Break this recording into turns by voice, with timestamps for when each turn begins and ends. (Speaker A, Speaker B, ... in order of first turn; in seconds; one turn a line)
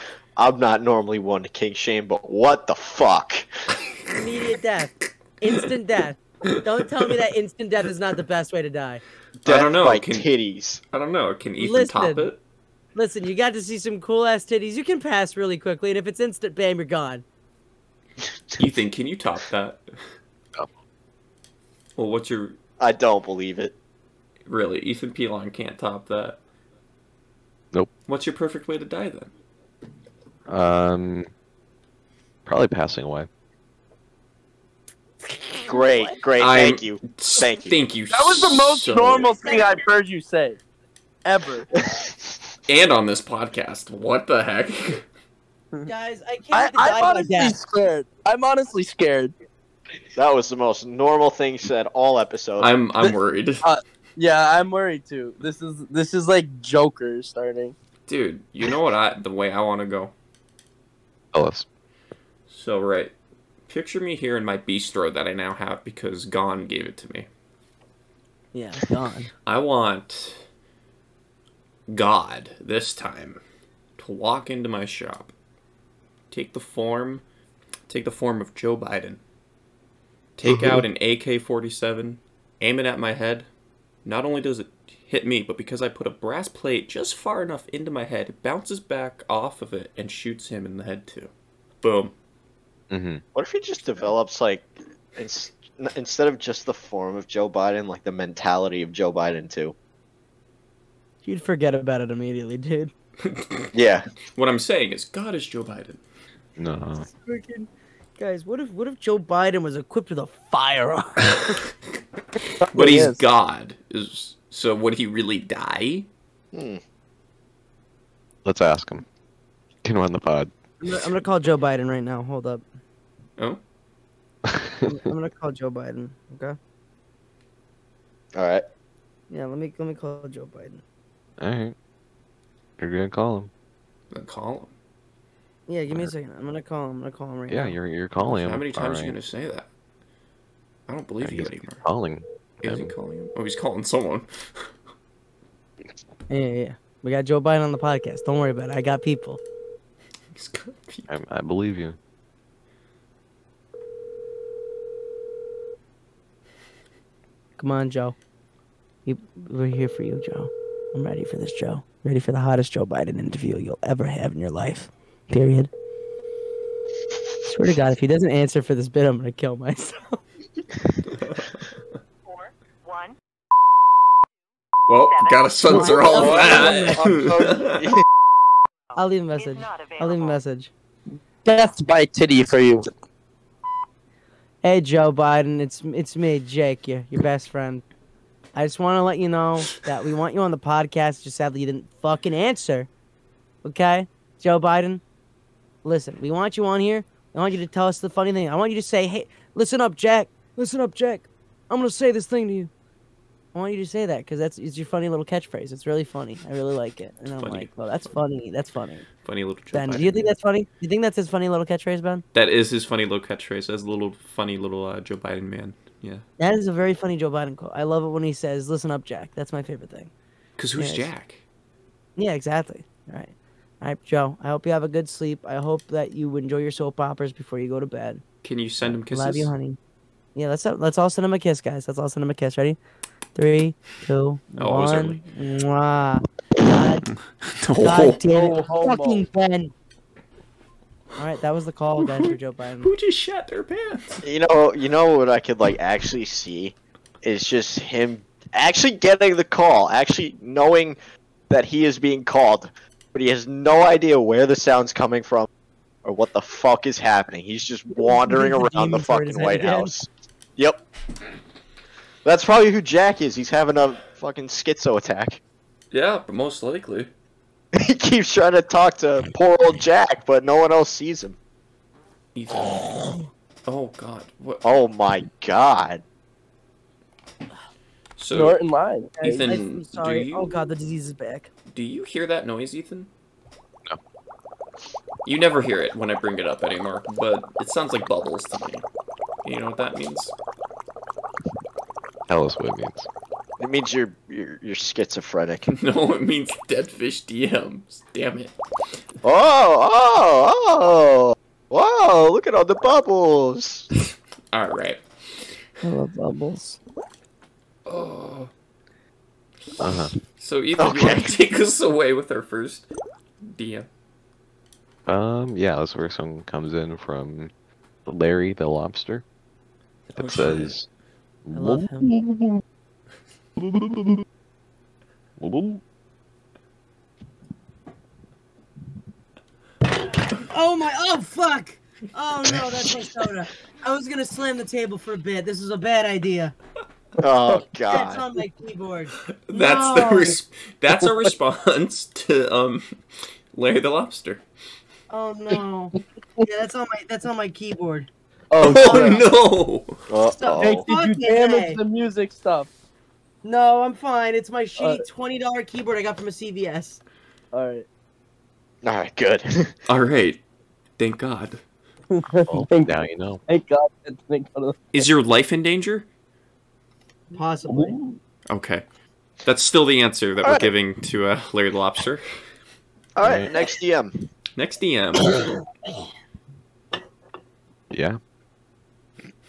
Speaker A: 0.4-3.5
Speaker B: 4.1-9.0
Speaker A: 9.4-10.8
Speaker C: 9.4-10.3
Speaker C: 10.9-12.4
Speaker B: 11.6-12.3
Speaker B: 12.9-17.2
Speaker C: 18.6-19.8
Speaker C: 22.0-22.6
Speaker A: 22.8-23.7
Speaker C: 24.5-26.4
Speaker C: 28.1-29.3
Speaker D: 30.5-31.3
Speaker D: 32.4-33.3
Speaker A: 35.6-37.8
Speaker C: 36.4-39.3
Speaker E: 38.1-40.6
Speaker E: 41.2-41.7
Speaker C: 42.7-45.0
Speaker B: 45.9-47.5
Speaker E: 46.5-49.3
Speaker A: 50.1-52.7
Speaker C: 52.6-53.6
Speaker E: 53.0-57.7
Speaker C: 58.1-60.1
Speaker D: 61.3-61.7
Speaker C: 62.5-63.1
Speaker C: 63.7-67.3
Speaker B: 68.5-69.3
Speaker C: 69.5-70.4
Speaker C: 71.9-73.4
Speaker C: 74.0-75.3
Speaker C: 76.3-77.2
Speaker C: 77.9-79.2
Speaker C: 80.4-83.5
Speaker D: 80.5-80.8
Speaker C: 84.0-91.3
Speaker C: 91.8-92.1
Speaker D: 92.9-93.2
Speaker A: 93.3-99.7
Speaker B: 101.2-102.9
Speaker C: 103.3-103.7
Speaker A: 103.7-104.0
Speaker C: 104.3-106.0
Speaker D: 106.6-107.1
Speaker B: 107.0-111.6
Speaker C: 111.2-111.6
Speaker E: 112.6-113.2
Speaker C: 112.7-116.1
Speaker A: 116.5-116.8
Speaker D: 118.4-119.0
Speaker D: 119.8-120.5
Speaker B: 120.8-122.6
Speaker D: 124.5-125.0
Speaker B: 124.8-126.5
Speaker A: 128.3-128.6
Speaker B: 129.3-130.8
Speaker D: 131.4-131.7
Speaker D: 132.8-133.5
Speaker C: 134.1-134.7
Speaker B: 135.7-137.8
Speaker D: 137.5-139.2
Speaker C: 138.2-139.7
Speaker C: 140.9-141.8
Speaker D: 141.2-142.9
Speaker C: 142.6-144.7
Speaker B: 146.3-149.4
Speaker C: 150.3-151.1
Speaker D: 151.1-152.0
Speaker B: 157.6-158.2
Speaker B: 159.1-165.7
Speaker B: 167.4-170.2
Speaker C: 171.1-171.7
Speaker C: 174.9-177.8
Speaker B: 175.6-177.2
Speaker A: 175.8-178.0
Speaker B: 178.9-180.7
Speaker E: 181.4-182.8
Speaker B: 184.6-187.8
Speaker B: 188.5-192.9
Speaker B: 193.6-195.0
Speaker B: 195.8-202.7
Speaker B: 203.5-209.1
Speaker C: 207.4-208.1
Speaker C: 209.2-210.3
Speaker B: 209.7-212.2
Speaker C: 212.3-216.2
Speaker B: 216.4-220.1
Speaker C: 220.6-221.4
Speaker B: 220.8-221.1
Speaker B: 222.2-228.2
Speaker C: 228.4-229.5
Speaker B: 228.8-229.8
Speaker B: 230.3-232.8
Speaker B: 233.3-237.0
Speaker C: 234.6-235.2
Speaker C: 237.1-238.2
Speaker B: 237.8-239.7
Speaker E: 238.2-239.2
Speaker B: 241.2-242.9
Speaker C: 242.0-244.2
Speaker A: 244.2-251.0
Speaker A: 251.5-255.5
Speaker A: 256.0-260.8
Speaker B: 257.9-259.9
Speaker A: 262.2-265.4
Speaker C: 265.9-267.1
Speaker A: 267.7-271.4
Speaker C: 272.3-274.6
Speaker A: 274.6-276.0
Speaker C: 278.2-278.6
Speaker E: 278.3-279.5
Speaker B: 279.2-281.5
Speaker C: 279.2-280.6
Speaker C: 281.7-283.1
Speaker C: 285.2-288.9
Speaker C: 289.4-290.3
Speaker D: 292.3-293.1
Speaker A: 293.6-295.7
Speaker C: 295.7-298.5
Speaker A: 299.2-303.9
Speaker C: 304.5-305.5
Speaker B: 305.8-306.8
Speaker C: 307.9-308.5
Speaker D: 309.8-310.1
Speaker C: 310.4-312.9
Speaker A: 310.8-311.3
Speaker C: 313.4-313.9
Speaker D: 315.1-317.5
Speaker D: 318.1-319.2
Speaker D: 320.1-320.9
Speaker C: 320.1-320.7
Speaker D: 321.4-322.6
Speaker B: 321.5-322.1
Speaker D: 323.6-324.2
Speaker D: 325.4-325.8
Speaker B: 330.3-336.5
Speaker A: 337.2-338.2
Speaker B: 337.9-340.4
Speaker C: 339.5-342.9
Speaker C: 343.5-344.4
Speaker B: 345.1-348.1
Speaker E: 348.5-349.2
Speaker C: 348.6-350.0
Speaker B: 348.6-349.2
Speaker A: 350.1-350.9
Speaker B: 350.4-351.8
Speaker E: 350.6-352.7
Speaker B: 353.4-357.0
Speaker E: 354.8-355.0
Speaker E: 357.5-357.9
Speaker A: 358.8-359.7
Speaker C: 359.9-360.4
Speaker C: 361.0-361.6
Speaker E: 362.1-362.9
Speaker D: 362.5-363.4
Speaker E: 363.5-364.8
Speaker C: 364.9-366.1
Speaker B: 367.3-368.0
Speaker E: 367.7-368.1
Speaker C: 368.5-368.8
Speaker C: 369.4-372.2
Speaker A: 370.4-370.7
Speaker A: 373.1-374.1
Speaker D: 373.2-373.5
Speaker C: 374.6-375.5
Speaker D: 377.9-378.2